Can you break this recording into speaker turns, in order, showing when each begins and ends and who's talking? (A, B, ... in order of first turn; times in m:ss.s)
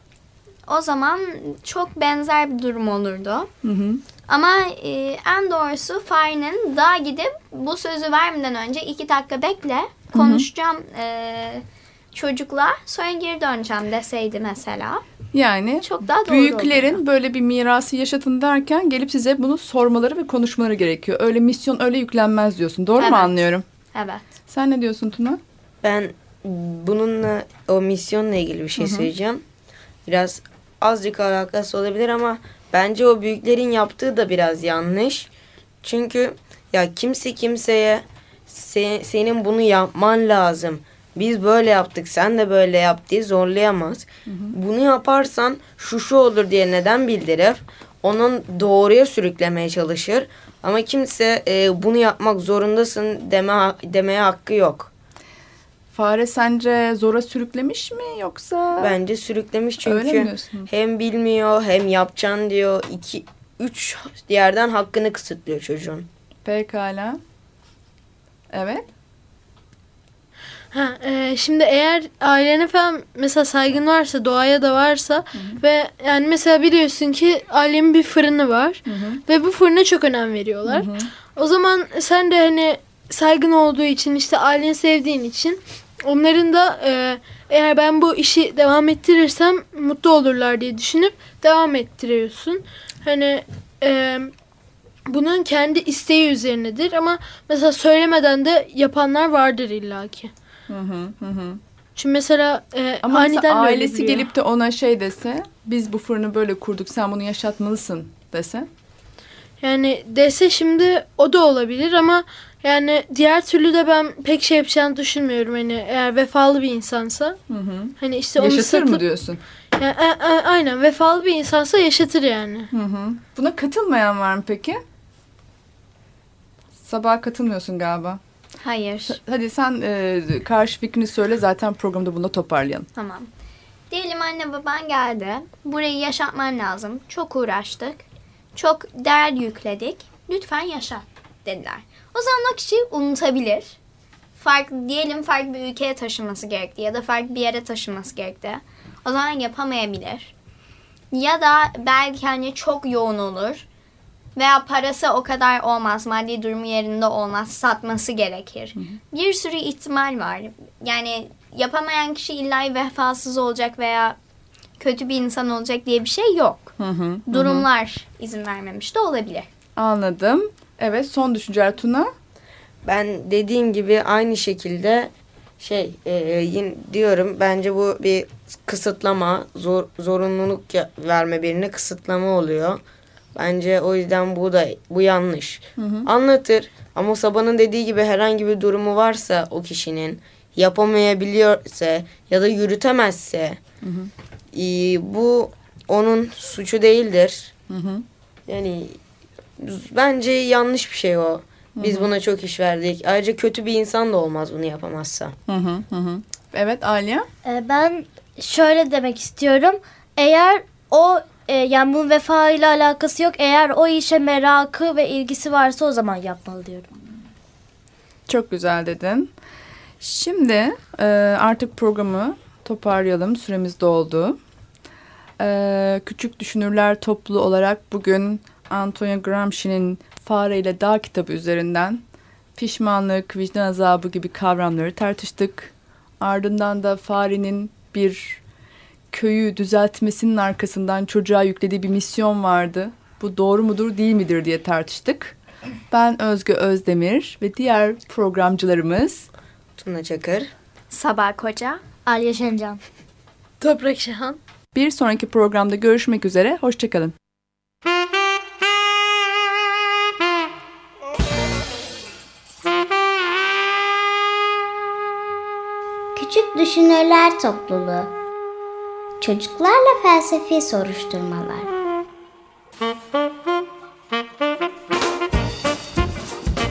0:00.6-0:03.5 A
0:03.6-0:04.0 B
0:04.3-0:15.0 A
0:10.1-0:10.5 B
0:15.3-0:23.6 B
0:15.8-0:17.0 A
0:23.0-0:23.3 A
0:23.9-0:24.3 A
0:24.5-0:25.4 B
0:25.8-0:29.4 C
0:28.8-0:29.1 B
0:30.0-0:35.3 C
0:35.8-0:54.9 C
0:55.9-0:58.9 B
0:58.8-1:06.1 C
0:59.8-1:00.7 B
1:06.4-1:07.2 B
1:08.5-1:08.9 B
1:10.7-1:34.3 D
1:15.3-1:15.6 B
1:18.9-1:19.2 B
1:20.6-1:21.1 B
1:35.1-1:40.3 D
1:40.7-1:41.6 B
1:42.0-1:44.3 D
1:43.0-1:48.7 B
1:49.6-1:57.4 D
1:57.5-1:59.4 B
1:58.0-1:59.0 D
1:59.7-2:02.7 D
2:02.7-2:04.8 B
2:06.8-2:08.2 B
2:08.6-2:09.2 A
2:09.1-2:12.9 B
2:12.9-2:13.3 A
2:13.9-2:18.0 A
2:18.5-2:23.8 A
2:24.4-2:30.3 A
2:31.1-2:33.6 A
2:34.4-2:44.2 A
2:44.8-2:46.7 A
2:46.8-2:47.7 B
2:47.3-2:49.5 A
2:49.8-2:52.1 B
2:52.8-3:02.8 C
3:03.3-3:13.6 C
3:05.8-3:06.1 B
3:13.8-3:14.1 B
3:14.5-3:17.5 C
3:17.7-3:18.0 B
3:18.5-3:19.0 C
3:19.6-3:25.3 C
3:21.8-3:22.1 B
3:25.5-3:27.3 B
3:27.4-3:36.9 E
3:38.3-3:39.3 B
3:40.0-3:44.4 B
3:45.4-3:52.0 B
3:52.6-3:58.4 B
3:59.1-4:05.4 B
4:05.9-4:09.3 B
4:09.8-4:10.5 C
4:10.9-4:11.8 A
4:12.0-4:12.8 E
4:13.6-4:14.4 D
4:14.7-4:17.1 B
4:26.2-4:28.1 F
4:29.2-4:31.7 F